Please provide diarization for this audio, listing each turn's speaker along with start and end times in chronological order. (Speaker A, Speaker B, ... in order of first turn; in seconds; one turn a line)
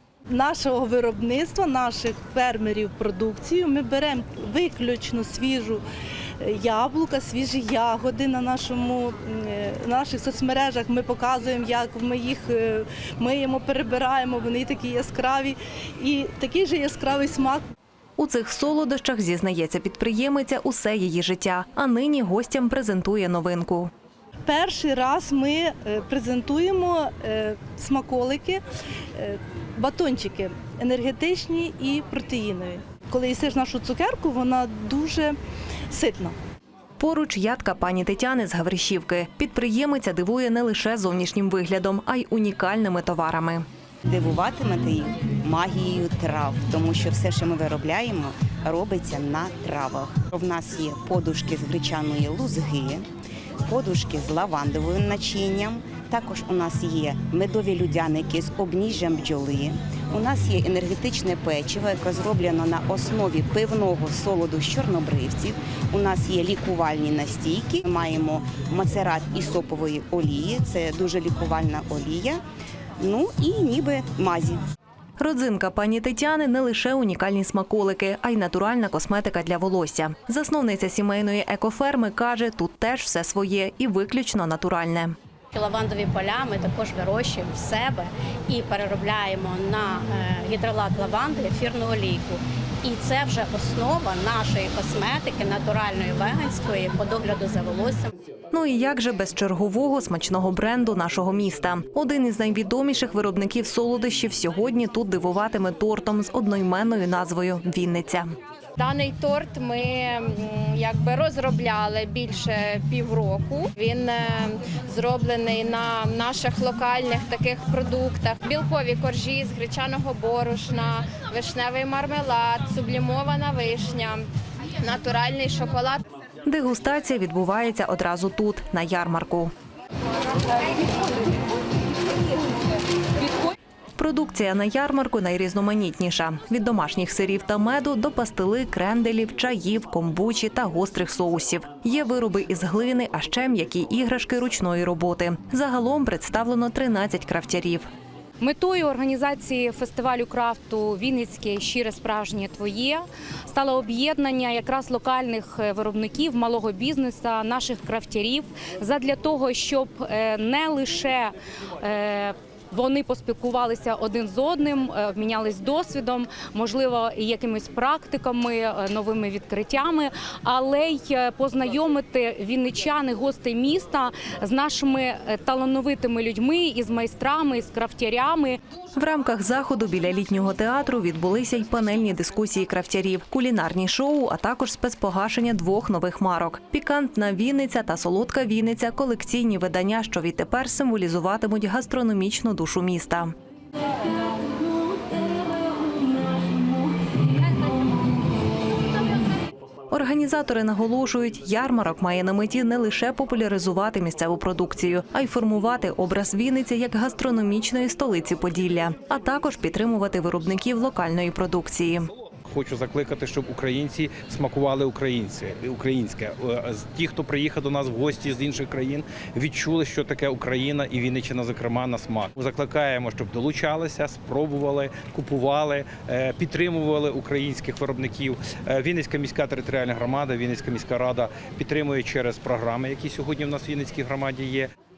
Speaker A: 0.3-5.8
Speaker A: 6.4-17.6
Speaker B: 18.2-23.9
Speaker A: 24.4-28.6
Speaker A: 29.2-35.4
Speaker A: 35.9-36.3
Speaker B: 37.0-43.6
Speaker C: 44.1-53.0
Speaker C: 53.6-72.4
Speaker C: 73.0-74.6
Speaker B: 75.2-85.1
Speaker D: 85.5-98.1
Speaker B: 98.5-108.3
Speaker E: 108.8-124.3
Speaker E: 124.8-126.0
Speaker B: 126.5-129.5
Speaker B: 134.0-147.9
Speaker F: 148.4-178.6
Speaker B: 178.9-193.3
Speaker B: 199.9-212.1
Speaker G: 212.5-234.7